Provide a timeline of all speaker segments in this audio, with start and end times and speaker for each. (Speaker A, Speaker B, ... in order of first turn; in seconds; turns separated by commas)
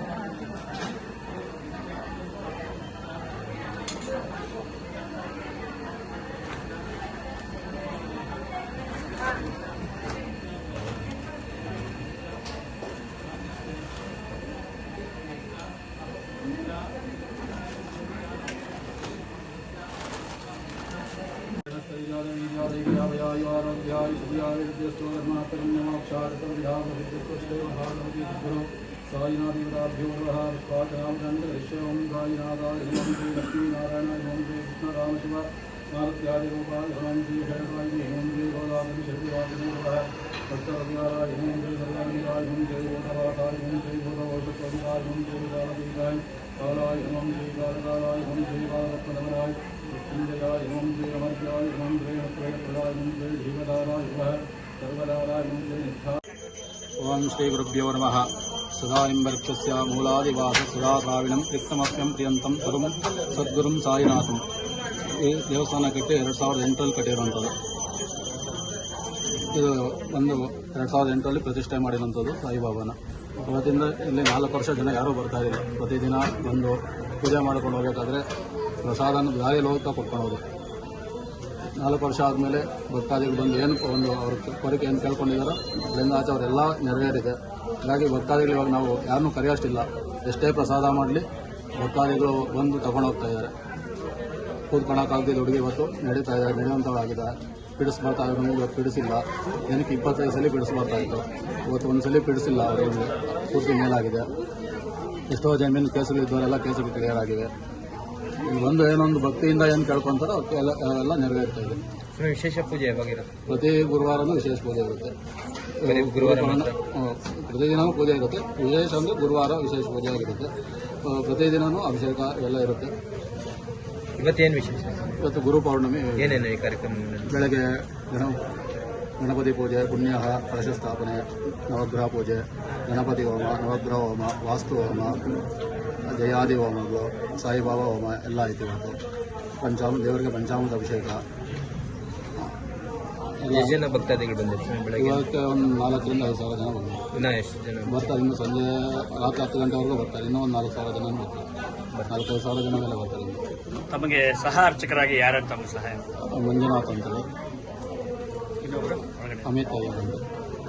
Speaker A: 21.7-56.2, Speaker A: 57.0-64.4, Speaker A: 65.1-67.5, Speaker A: 69.5-78.2, Speaker A: 78.8-80.4, Speaker A: 81.8-91.3, Speaker A: 91.8-93.5, Speaker A: 94.7-104.3, Speaker A: 105.3-107.5, Speaker A: 108.4-111.8, Speaker B: 112.2-113.4, Speaker A: 113.5-115.1, Speaker A: 115.8-120.5, Speaker B: 115.8-116.8, Speaker A: 121.0-122.9, Speaker B: 124.2-125.2, Speaker A: 125.2-126.5, Speaker B: 126.2-127.5, Speaker A: 127.2-128.4, Speaker A: 129.2-135.2, Speaker A: 136.1-139.0, Speaker A: 139.6-141.2, Speaker A: 143.4-143.8, Speaker B: 143.5-145.3, Speaker A: 145.0-147.1, Speaker B: 147.1-148.0, Speaker A: 147.9-151.5, Speaker B: 151.9-152.2, Speaker A: 152.1-153.4, Speaker C: 153.9-156.0, Speaker A: 156.3-157.3, Speaker C: 158.6-159.5, Speaker A: 159.4-160.2